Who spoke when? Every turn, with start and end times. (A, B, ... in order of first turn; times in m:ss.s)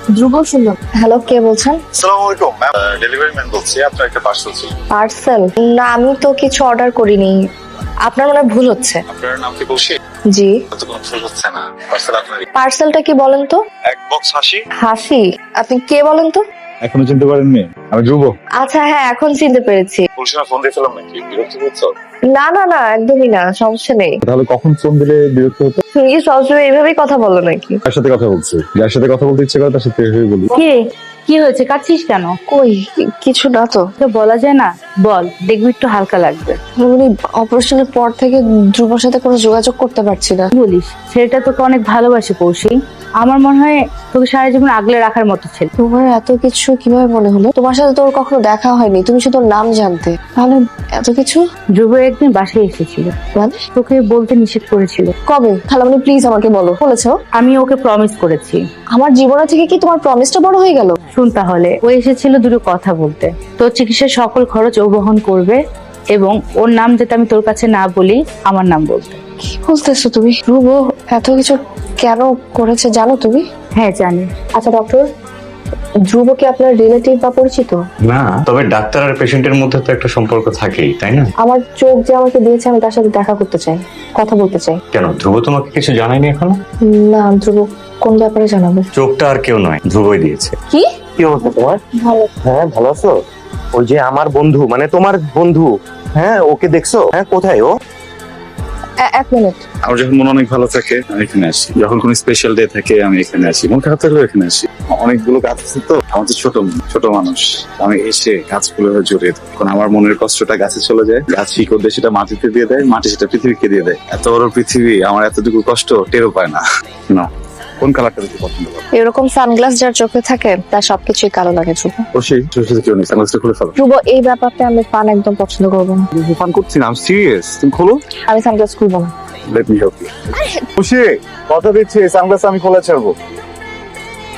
0:00.2-0:01.8 A
0:01.9-0:04.7 B
0:04.9-0:07.4 A
0:08.1-0:09.0 A
0:09.1-0:10.0 B
0:10.7-0:12.5 B
0:12.5-0:13.6 A
0:13.9-0:14.6 B
0:14.8-0:16.4 A
0:16.8-0:18.3 B
0:18.6-0:20.0 A
0:20.2-0:21.9 B
0:22.3-0:24.2 A
0:24.2-0:25.8 B
0:26.0-0:27.8 A
0:27.9-0:30.5 B
0:31.3-0:32.3 C
0:32.5-0:33.8 A
0:34.0-0:36.6 C
0:36.8-0:40.5 A
0:40.6-0:45.7 C
0:45.8-0:51.4 A
0:51.8-0:53.1 C
0:53.8-0:55.1 C
0:55.3-0:57.2 A
0:57.4-0:58.6 C
0:58.9-1:01.0 A
1:01.1-1:05.6 C
1:06.1-1:09.2 C
1:09.5-1:13.4 A
1:13.8-1:14.3 C
1:14.6-1:15.1 A
1:16.1-1:17.8 A
1:18.0-1:21.3 D
1:21.4-1:24.8 A
1:24.9-1:26.6 D
1:26.9-1:28.9 A
1:28.9-1:30.6 D
1:31.2-1:31.8 E
1:32.6-1:33.0 E
1:33.8-1:35.6 E
1:36.2-1:37.6 E
1:39.0-1:39.6 A
1:39.8-1:57.3 B
1:57.8-1:58.8 B
1:59.0-2:02.0 A
2:02.1-2:03.7 B
2:03.8-2:06.1 A
2:06.1-2:08.0 B
2:08.3-2:09.1 A
2:09.5-2:13.2 B